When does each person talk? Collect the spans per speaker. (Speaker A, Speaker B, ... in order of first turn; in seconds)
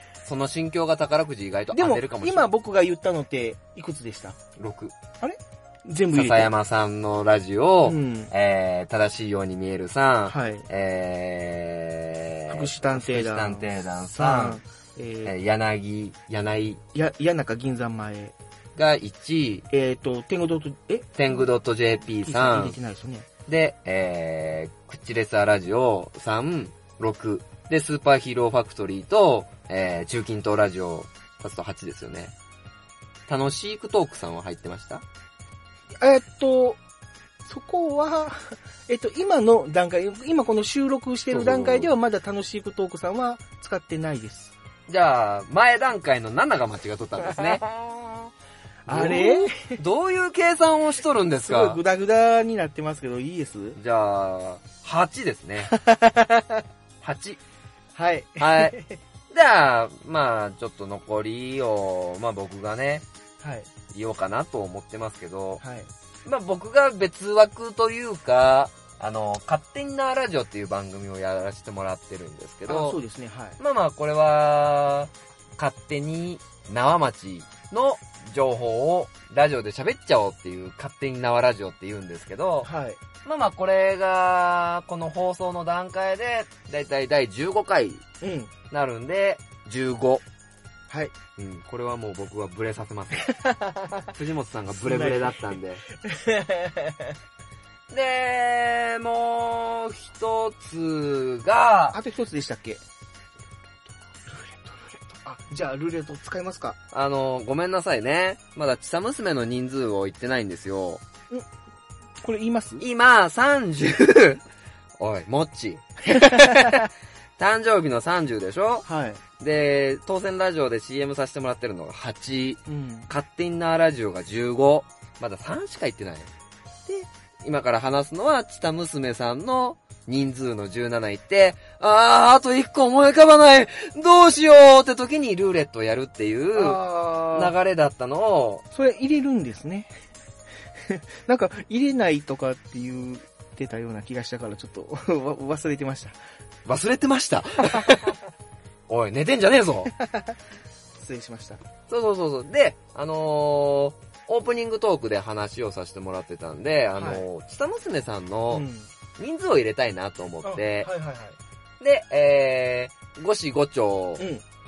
Speaker A: 0.2-2.5, 4.6-4.9, 6.1-14.6, 15.2-16.8, 18.8-19.7, 21.1-22.8, 23.5-32.3, 33.3-35.0, 41.3-41.9, 44.9-47.6, 48.9-51.8, 53.8-55.7, 57.0-57.4, 58.4-58.8, 59.3-63.1, 63.9-65.6, 66.2-73.0, 73.6-82.7, 83.2-88.0, 88.7-90.2, 91.4-93.3, 94.1-95.8, 97.9-102.0, 106.9-111.0, 112.8-114.4, 115.0-116.8, 117.4-118.9, 119.4-126.3, 126.9-138.6, 146.7-148.1, 148.9-149.9, 151.9-158.7, 159.2-160.9, 161.8-164.3
Speaker B: 1.7-4.4, 5.2-6.5, 7.8-8.3, 10.3-10.7, 12.5-15.3, 16.9-18.4, 19.7-21.4, 22.2-23.3, 36.0-36.8, 37.4-44.5, 47.2-48.3, 48.9-49.8, 51.4-53.8, 55.7-56.6, 58.0-59.0, 63.4-63.7, 65.6-65.9, 72.7-73.6, 82.6-83.0, 88.2-88.5, 90.9-91.2, 93.3-94.1, 94.7-97.1, 101.9-102.8, 104.1-106.8, 112.2-112.8, 116.1-116.8, 118.9-119.2, 122.7-123.1, 136.6-137.5, 138.7-139.9, 140.9-146.2, 147.7-148.1, 150.0-150.4, 151.0-151.6, 156.9-157.3, 158.5-158.9, 160.4-161.4, 164.2-164.4